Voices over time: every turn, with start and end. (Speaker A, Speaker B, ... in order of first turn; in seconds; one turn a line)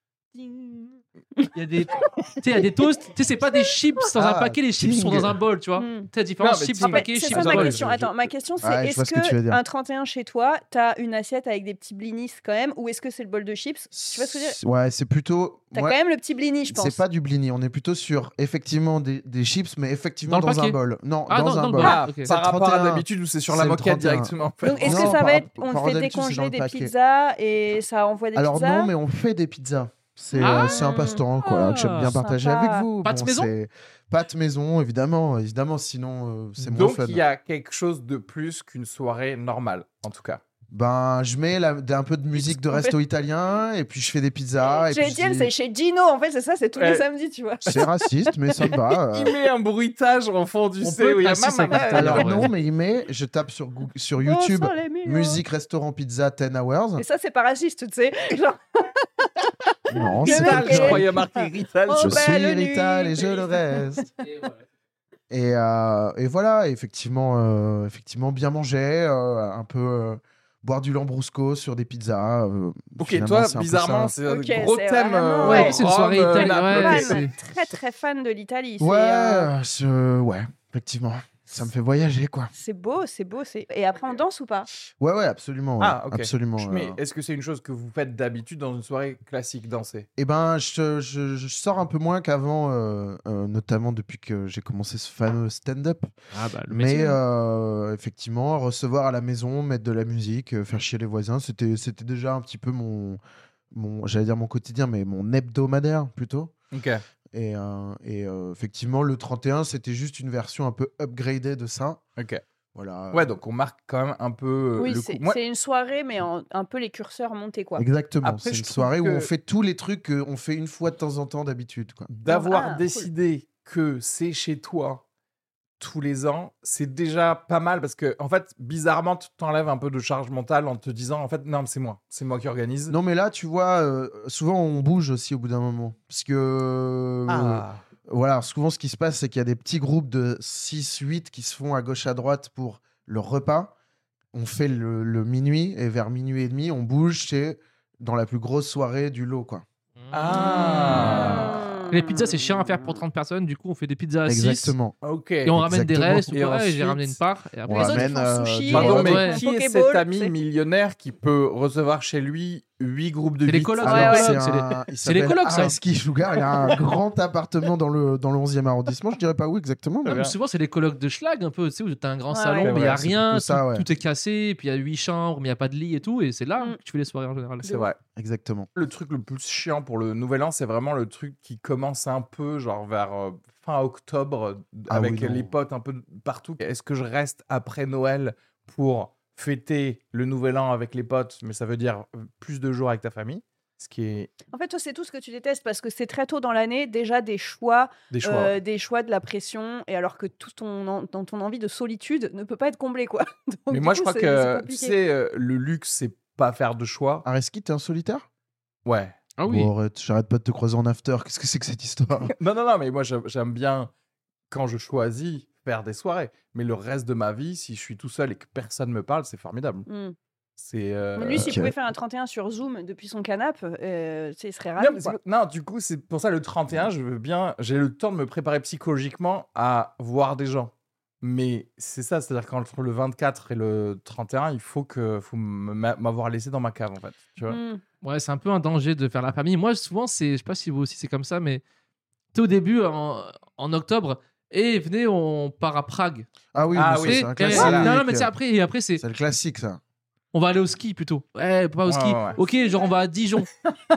Speaker A: 0.3-7.8
Speaker B: 4.1-5.4
Speaker C: 5.8-6.1
Speaker D: 6.4-8.1
Speaker C: 6.8-14.6
Speaker B: 8.6-9.6
Speaker B: 13.9-16.0
Speaker C: 15.7-17.0
Speaker B: 16.7-26.9
Speaker A: 20.3-20.8
Speaker A: 21.3-22.3
Speaker D: 21.8-25.2
Speaker C: 24.6-28.9
Speaker B: 28.3-37.2
Speaker C: 30.3-31.2
Speaker A: 30.4-32.1
Speaker C: 32.1-32.9
Speaker A: 33.0-33.5
Speaker D: 36.6-40.4
Speaker B: 40.7-45.5
Speaker C: 42.4-42.9
Speaker C: 44.9-47.9
Speaker D: 46.8-47.0
Speaker B: 47.7-49.3
Speaker D: 49.1-52.3
Speaker A: 50.8-52.5
Speaker B: 51.9-57.0
Speaker C: 54.2-55.4
Speaker C: 57.0-61.2
Speaker B: 59.9-61.1
Speaker D: 60.2-62.3
Speaker C: 61.9-64.0
Speaker B: 62.0-64.1
Speaker A: 64.2-64.6
Speaker B: 65.3-74.1
Speaker D: 73.0-77.2
Speaker C: 74.2-79.5
Speaker A: 75.4-77.3
Speaker B: 78.8-82.5
Speaker C: 82.5-84.7
Speaker B: 85.0-87.0
Speaker D: 85.8-90.1
Speaker B: 90.2-96.1
Speaker A: 96.3-97.2
Speaker B: 96.7-103.2
Speaker B: 103.7-106.5
Speaker D: 106.7-107.0
Speaker B: 107.3-112.0
Speaker D: 112.2-112.4
Speaker B: 112.7-113.3
Speaker D: 113.1-115.4
Speaker C: 114.8-117.8
Speaker B: 117.8-122.1
Speaker D: 118.2-119.3
Speaker D: 122.1-125.0
Speaker C: 122.3-123.1
Speaker D: 125.8-132.9
Speaker B: 132.9-143.7
Speaker D: 137.3-137.8
Speaker B: 144.3-149.6
Speaker A: 150.0-154.8
Speaker D: 150.1-151.6
Speaker C: 150.3-153.0
Speaker B: 154.2-154.9
Speaker D: 155.0-155.5
Speaker A: 155.4-158.1
Speaker B: 155.5-156.3
Speaker D: 156.3-157.2
Speaker B: 157.7-159.2
Speaker C: 157.7-160.3
Speaker D: 158.7-164.2
Speaker A: 158.9-159.4
Speaker A: 163.4-165.7
Speaker B: 163.8-170.2
Speaker C: 163.9-164.3
Speaker D: 170.0-170.3
Speaker A: 170.1-177.8
Speaker C: 172.3-172.7
Speaker D: 172.6-173.0
Speaker B: 172.8-173.9
Speaker C: 177.6-177.9
Speaker D: 177.6-178.0
Speaker B: 178.1-178.7
Speaker D: 178.7-194.3
Speaker B: 184.9-185.5
Speaker C: 194.5-204.9
Speaker D: 198.1-198.5
Speaker D: 203.7-207.2
Speaker B: 207.2-208.2
Speaker D: 208.8-209.2
Speaker A: 209.4-209.7
Speaker B: 209.4-212.3
Speaker D: 212.3-213.9
Speaker D: 214.5-219.9
Speaker C: 219.9-220.1
Speaker D: 220.6-221.6
Speaker C: 221.2-225.2
Speaker B: 221.3-221.7
Speaker D: 224.8-237.6
Speaker C: 237.5-237.8
Speaker A: 238.0-241.6
Speaker A: 242.3-246.3
Speaker B: 246.5-248.3
Speaker D: 246.7-247.9
Speaker A: 247.0-249.0
Speaker B: 249.0-249.8
Speaker A: 250.3-253.5
Speaker D: 251.8-252.4
Speaker C: 252.4-252.7